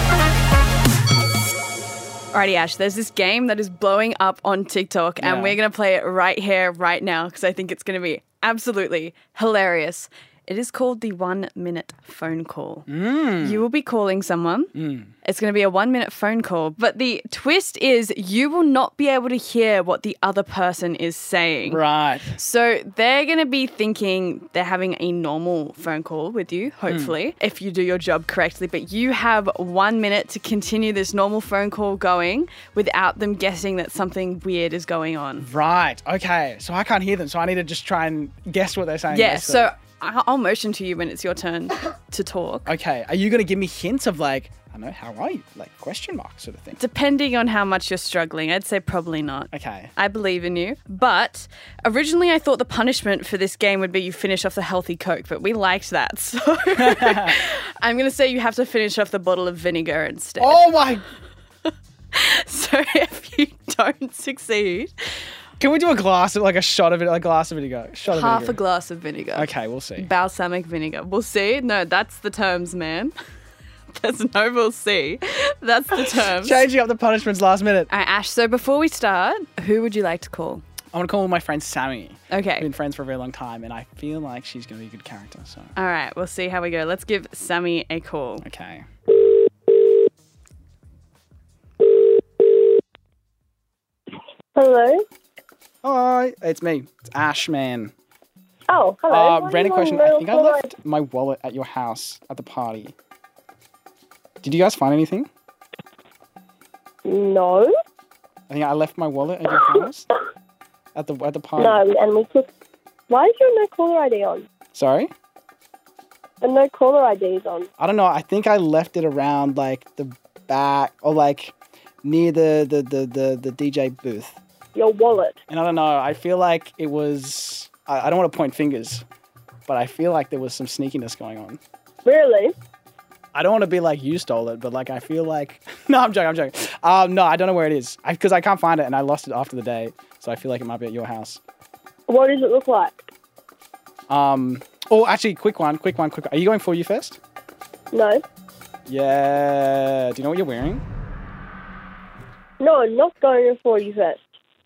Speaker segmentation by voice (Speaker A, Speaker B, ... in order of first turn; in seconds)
Speaker A: 2.3-12.8, 13.4-35.5, 39.1-42.7, 46.7-60.7, 62.1-64.9, 68.1-73.1, 73.9-76.6, 77.9-80.6, 82.3-82.7, 85.8-88.5
Speaker B: 5.2-5.6, 12.9-13.7, 14.7-15.1, 21.7-22.4, 26.9-27.1, 35.4-39.7, 42.6-46.8, 49.5-49.9, 56.7-57.4, 60.4-61.0, 65.6-68.6, 69.3-70.1, 75.9-77.9, 80.9-85.7, 88.4-88.8, 95.8-97.9, 99.1-102.9, 104.4-105.3, 108.5-110.0, 110.9-111.8, 114.7-115.1, 117.8-124.4, 125.5-129.0, 129.7-131.6, 133.3-141.4, 144.1-147.2, 148.9-150.8
Speaker C: 89.2-89.9, 91.8-92.6, 94.5-95.0, 98.7-100.7, 107.0-107.7, 111.6-112.5, 113.1-114.4, 116.4-117.7, 124.7-125.3, 132.0-132.5, 142.1-142.9, 147.9-148.2, 152.6-154.2